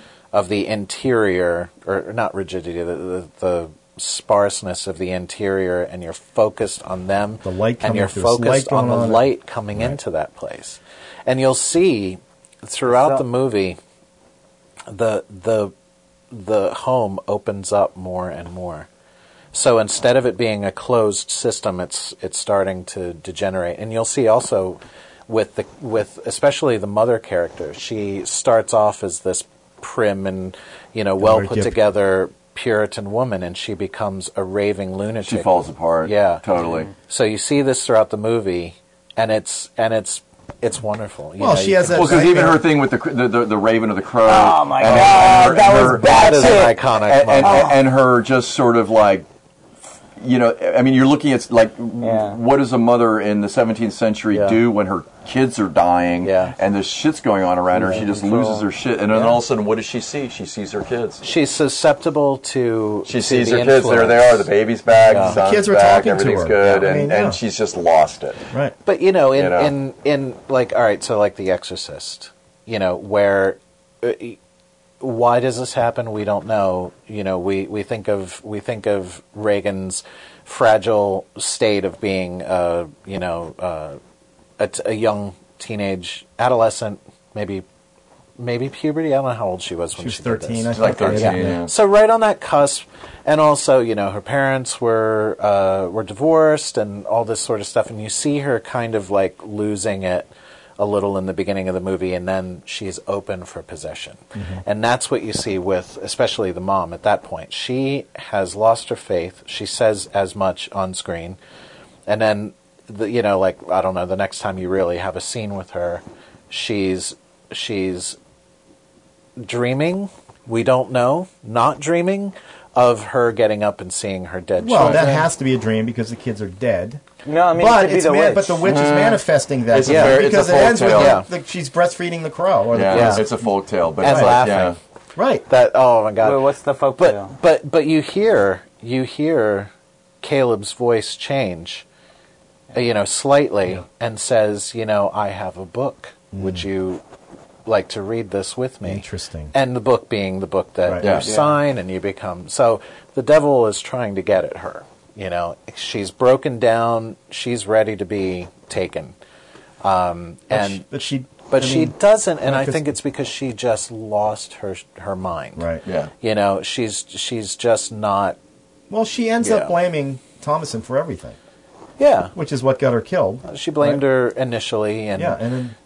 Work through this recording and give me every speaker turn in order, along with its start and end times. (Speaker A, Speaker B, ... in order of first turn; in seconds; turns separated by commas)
Speaker A: 0.3-13.8, Speaker B: 7.4-10.0, Speaker C: 12.9-13.2, Speaker A: 14.9-15.7, Speaker A: 16.3-18.9, Speaker A: 19.5-36.5, Speaker B: 31.2-31.8, Speaker D: 35.2-36.9, Speaker A: 37.0-42.5, Speaker B: 41.4-42.6, Speaker D: 41.9-49.3, Speaker C: 44.3-46.7, Speaker A: 44.9-47.7, Speaker C: 47.4-47.8, Speaker D: 50.2-61.2, Speaker C: 52.0-52.4, Speaker A: 54.3-54.6, Speaker A: 56.2-56.6, Speaker A: 57.7-58.6, Speaker A: 59.1-59.4, Speaker A: 61.2-64.5, Speaker D: 63.1-68.4, Speaker A: 65.1-65.4, Speaker B: 65.1-67.4, Speaker A: 68.9-74.4, Speaker D: 69.3-69.7, Speaker A: 75.0-84.0, Speaker A: 84.6-87.7, Speaker A: 88.4-111.4, Speaker B: 90.0-91.6, Speaker D: 90.7-91.7, Speaker B: 104.3-104.6, Speaker A: 112.1-118.2, Speaker A: 119.4-125.3, Speaker B: 124.6-127.0, Speaker C: 127.2-128.6, Speaker B: 127.5-133.4, Speaker D: 128.6-131.2, Speaker A: 129.9-130.3, Speaker A: 130.8-131.3, Speaker D: 132.7-134.8, Speaker A: 132.9-133.3, Speaker A: 134.0-134.8, Speaker B: 134.0-134.6, Speaker B: 135.2-135.5, Speaker A: 135.5-139.7, Speaker C: 136.2-137.3, Speaker A: 140.2-141.8, Speaker A: 142.7-147.0, Speaker B: 146.3-146.7, Speaker A: 147.7-159.2, Speaker B: 148.8-149.5, Speaker B: 150.8-151.3, Speaker D: 151.0-151.4, Speaker A: 159.8-160.8, Speaker B: 160.5-163.0, Speaker A: 161.5-165.7, Speaker B: 165.6-165.8, Speaker D: 165.9-166.1, Speaker A: 166.2-168.4, Speaker B: 168.9-171.4, Speaker A: 169.4-169.7, Speaker A: 172.0-172.3, Speaker B: 172.3-174.0, Speaker A: 173.5-175.4, Speaker B: 175.2-175.8